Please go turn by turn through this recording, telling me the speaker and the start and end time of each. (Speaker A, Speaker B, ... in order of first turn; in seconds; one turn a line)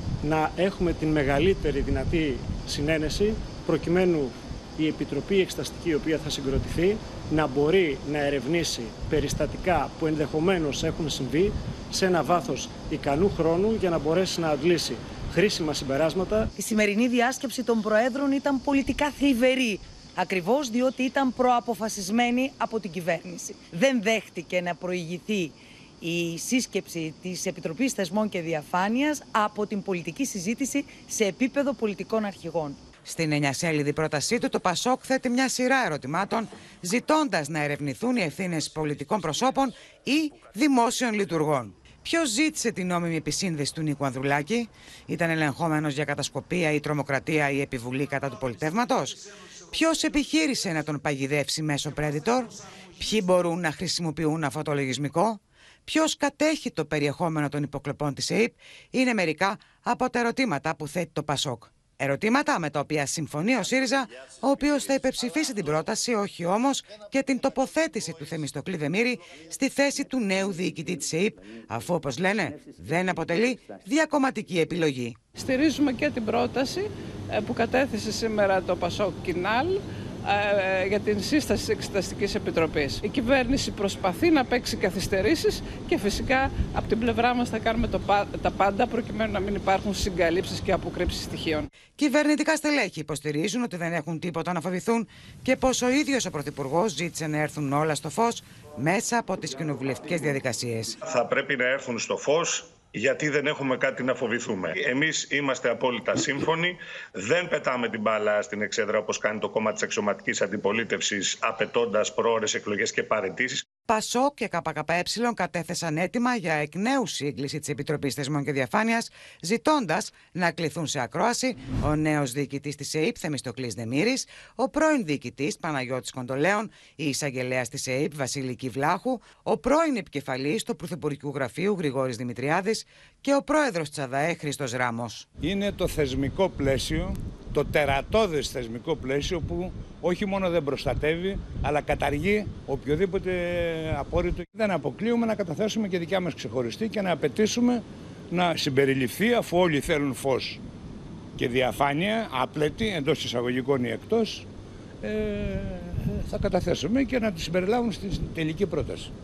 Speaker A: 0.2-16.5
Speaker B: 16.6-32.8
Speaker C: 33.0-75.2
Speaker D: 75.4-91.7
Speaker C: 92.0-101.0
Speaker E: 101.1-113.6
Speaker C: 113.9-135.2
Speaker F: 135.4-150.6
Speaker F: 151.4-154.5
Speaker F: 155.0-159.1